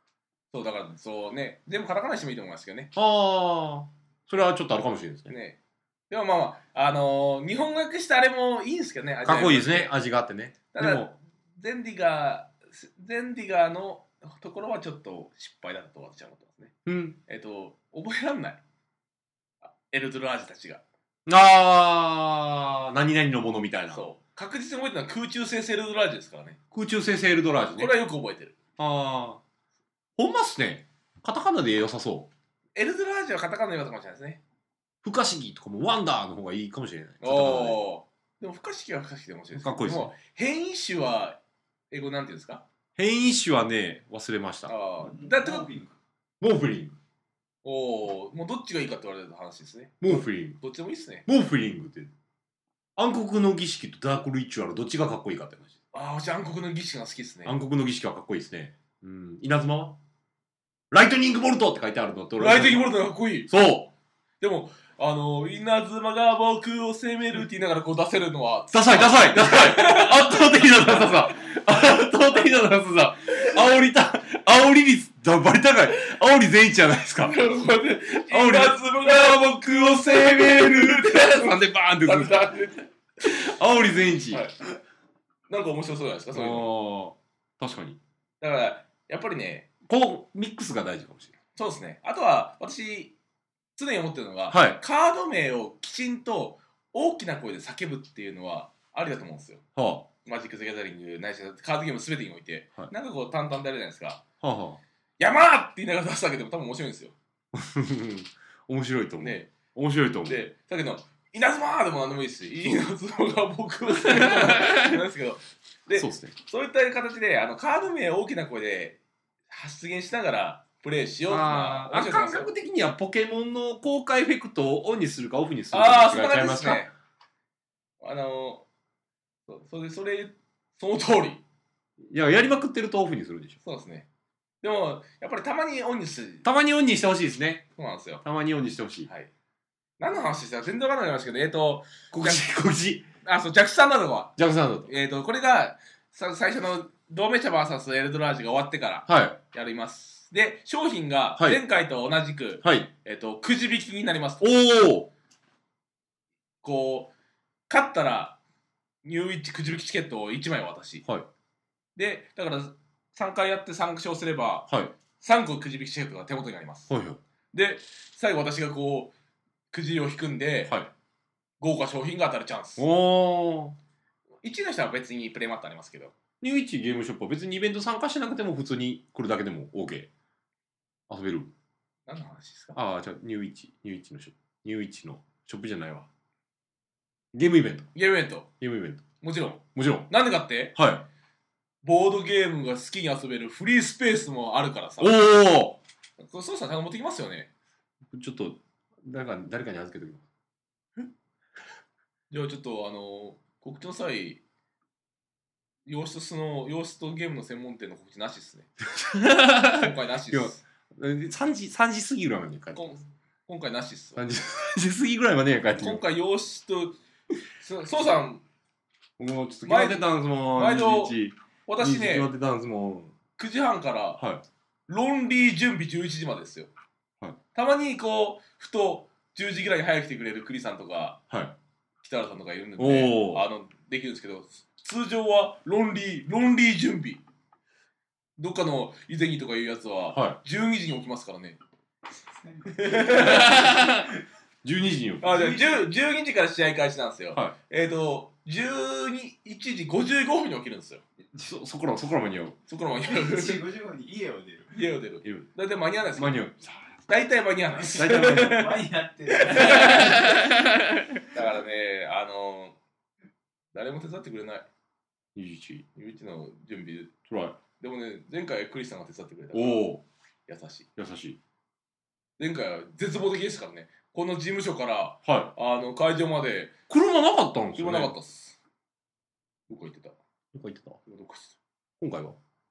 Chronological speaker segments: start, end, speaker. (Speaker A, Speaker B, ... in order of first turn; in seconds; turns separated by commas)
Speaker A: 0.5-2.9, Speaker B: 2.9-5.3, Speaker A: 5.3-5.6, Speaker A: 6.1-9.9, Speaker B: 9.2-11.1, Speaker A: 10.7-16.7, Speaker B: 16.9-17.2, Speaker A: 17.3-18.6, Speaker A: 19.6-20.8, Speaker B: 21.3-24.0, Speaker A: 23.9-26.6, Speaker B: 26.7-27.9, Speaker A: 27.8-28.6, Speaker B: 28.8-29.4, Speaker B: 30.2-32.3, Speaker A: 32.8-34.4, Speaker B: 35.0-37.8, Speaker A: 37.2-41.4, Speaker B: 39.5-40.1, Speaker A: 41.9-42.6, Speaker B: 43.0-44.7, Speaker A: 44.7-45.8, Speaker C: 45.1-45.9, Speaker B: 46.4-47.0, Speaker A: 47.6-51.3, Speaker B: 50.0-50.6, Speaker B: 51.3-52.1, Speaker B: 53.0-55.7, Speaker A: 55.9-57.6, Speaker B: 57.5-60.0, Speaker B: 60.9-62.9, Speaker A: 62.4-63.5, Speaker B: 63.5-63.9, Speaker A: 64.4-71.3, Speaker B: 68.7-77.5, Speaker A: 77.2-82.9, Speaker B: 78.3-82.6, Speaker B: 83.2-84.5, Speaker A: 84.3-84.6, Speaker A: 85.5-86.7, Speaker B: 86.3-88.0, Speaker A: 88.4-89.7, Speaker B: 89.9-91.3, Speaker A: 91.6-93.2, Speaker A: 93.8-99.6, Speaker B: 94.5-94.8, Speaker B: 99.8-100.1, Speaker A: 100.2-104.2, Speaker B: 104.4-104.8, Speaker A: 105.2-107.2, Speaker B: 107.5-110.5, Speaker A: 109.2-109.5, Speaker A: 110.3-119.0, Speaker B: 113.9-115.0, Speaker B: 116.0-116.3, Speaker A: 119.5-122.5, Speaker B: 121.3-126.9, Speaker A: 125.7-126.9, Speaker A: 128.0-128.7, Speaker A: 129.5-131.4, Speaker B: 132.1-133.6, Speaker A: 133.6-134.1, Speaker A: 134.6-136.4, Speaker B: 136.4-137.7, Speaker A: 137.8-138.2, Speaker B: 138.2-139.1, Speaker A: 140.0-142.4, Speaker B: 142.1-143.1, Speaker A: 143.2-154.5, Speaker B: 144.4-144.9, Speaker B: 149.1-149.4, Speaker B: 152.6-152.9, Speaker B: 154.4-155.1, Speaker A: 156.6-157.1, Speaker A: 157.7-158.4, Speaker A: 159.0-161.1, Speaker A: 162.0-164.7, Speaker B: 164.7-164.9, Speaker A: 165.2-166.9, Speaker B: 166.9-167.2, Speaker A: 167.5-169.1, Speaker A: 169.7-170.8, Speaker A: 171.6-172.9, Speaker B: 172.8-173.8, Speaker A: 174.4-176.2, Speaker B: 176.4-180.1, Speaker B: 181.1-181.5, Speaker A: 182.1-182.8, Speaker B: 182.8-186.1, Speaker B: 187.3-187.9, Speaker A: 187.9-188.5, Speaker B: 188.6-189.0, Speaker A: 189.2-190.8, Speaker B: 189.8-190.1, Speaker B: 190.8-191.1, Speaker A: 191.8-195.2, Speaker B: 195.0-195.8, Speaker A: 196.2-197.5, Speaker B: 198.1-200.2, Speaker A: 202.3-204.4, Speaker A: 205.9-208.7, Speaker B: 208.9-212.9, Speaker A: 209.7-210.6, Speaker A: 212.8-214.2, Speaker B: 214.2-216.0, Speaker A: 215.8-217.0, Speaker A: 217.6-218.4, Speaker B: 219.2-223.1, Speaker A: 219.7-222.3, Speaker A: 223.4-224.2, Speaker B: 224.2-224.4, Speaker A: 224.9-226.7, Speaker A: 227.6-231.2, Speaker B: 231.3-231.6, Speaker A: 232.0-237.2, Speaker B: 232.8-233.5, Speaker A: 238.4-241.6, Speaker B: 240.1-240.4, Speaker C: 242.5-243.9, Speaker A: 242.7-244.1, Speaker B: 243.3-243.9, Speaker B: 244.6-245.5, Speaker A: 245.2-251.0, Speaker C: 245.3-245.9, Speaker B: 251.3-252.6, Speaker A: 252.7-253.6, Speaker C: 253.1-254.8, Speaker A: 254.7-256.4, Speaker B: 255.2-255.5, Speaker B: 256.2-256.7, Speaker A: 257.1-260.5, Speaker B: 257.9-258.8, Speaker C: 258.0-260.4, Speaker B: 259.6-260.4, Speaker A: 261.2-262.8, Speaker A: 263.7-264.7, Speaker B: 265.4-265.9, Speaker A: 265.9-267.1, Speaker B: 267.3-267.6, Speaker A: 267.8-269.9, Speaker B: 269.5-270.1, Speaker A: 270.5-270.9, Speaker B: 271.0-271.4, Speaker A: 272.4-276.8, Speaker B: 275.2-275.5, Speaker B: 276.9-278.1, Speaker A: 277.8-278.6, Speaker A: 279.7-280.2, Speaker B: 280.5-281.0, Speaker A: 281.1-281.6, Speaker B: 282.0-282.4